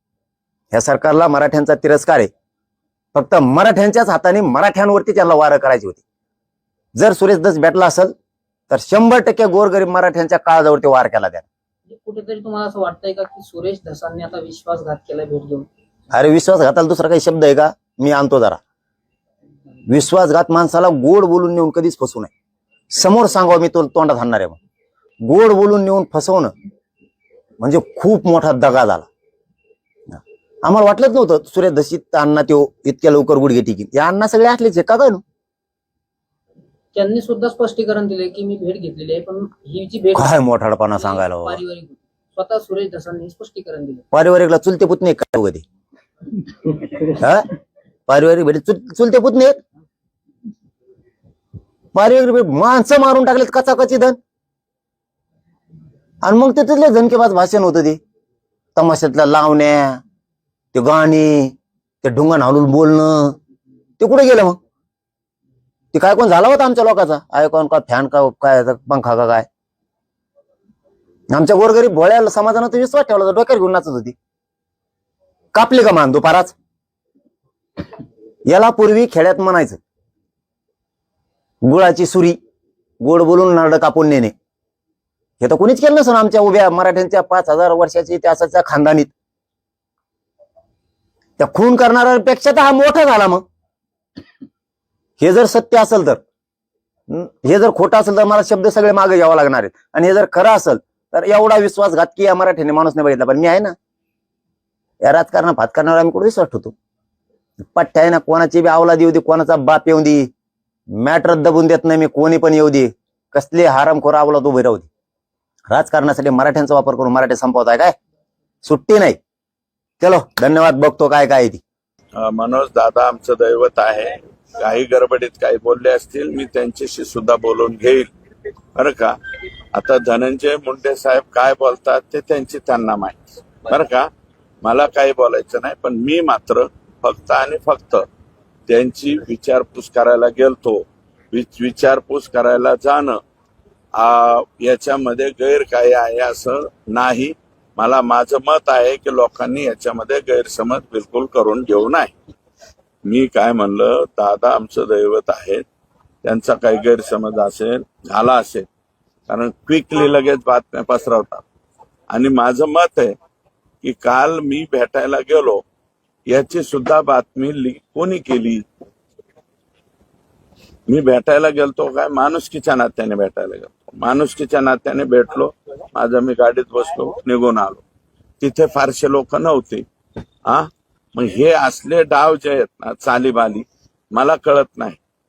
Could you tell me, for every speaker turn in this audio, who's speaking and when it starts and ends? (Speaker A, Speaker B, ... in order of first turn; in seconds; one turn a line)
Speaker A: 0.7-2.3
Speaker A: 3.1-6.0
Speaker A: 7.0-8.1
Speaker A: 8.7-11.5
Speaker B: 11.9-15.7
Speaker A: 16.1-18.6
Speaker A: 19.9-22.3
Speaker A: 22.9-24.6
Speaker A: 25.2-26.5
Speaker A: 27.6-29.1
Speaker A: 30.1-35.2
Speaker B: 36.9-40.3
Speaker A: 40.1-41.6
Speaker B: 41.0-44.0
Speaker A: 44.1-45.6
Speaker A: 47.1-47.5
Speaker A: 48.1-49.6
Speaker A: 52.0-54.2
Speaker A: 56.2-58.0
Speaker A: 58.8-60.0
Speaker A: 60.7-63.4
Speaker A: 64.0-64.6
Speaker A: 65.9-69.5
Speaker A: 71.3-74.1
Speaker A: 75.5-76.5
Speaker A: 78.5-79.8
Speaker A: 81.6-82.4
Speaker A: 83.0-84.3
Speaker A: 85.4-89.1
Speaker A: 91.4-93.4
Speaker A: 95.2-96.2
Speaker A: 97.1-103.8
Speaker A: 105.0-106.8
Speaker A: 107.6-110.3
Speaker A: 110.9-114.9
Speaker A: 115.7-117.9
Speaker A: 118.6-119.2
Speaker A: 120.0-121.6
Speaker C: 122.2-128.1
Speaker C: 128.8-129.2
Speaker C: 129.7-134.1
Speaker C: 134.6-138.0
Speaker C: 138.7-143.2
Speaker C: 143.9-152.1
Speaker C: 153.0-155.6
Speaker C: 156.2-158.7
Speaker C: 159.3-161.4
Speaker C: 162.1-163.2
Speaker C: 163.8-165.6
Speaker C: 166.3-168.7
Speaker C: 170.9-177.8
Speaker C: 178.4-179.8
Speaker C: 180.5-185.0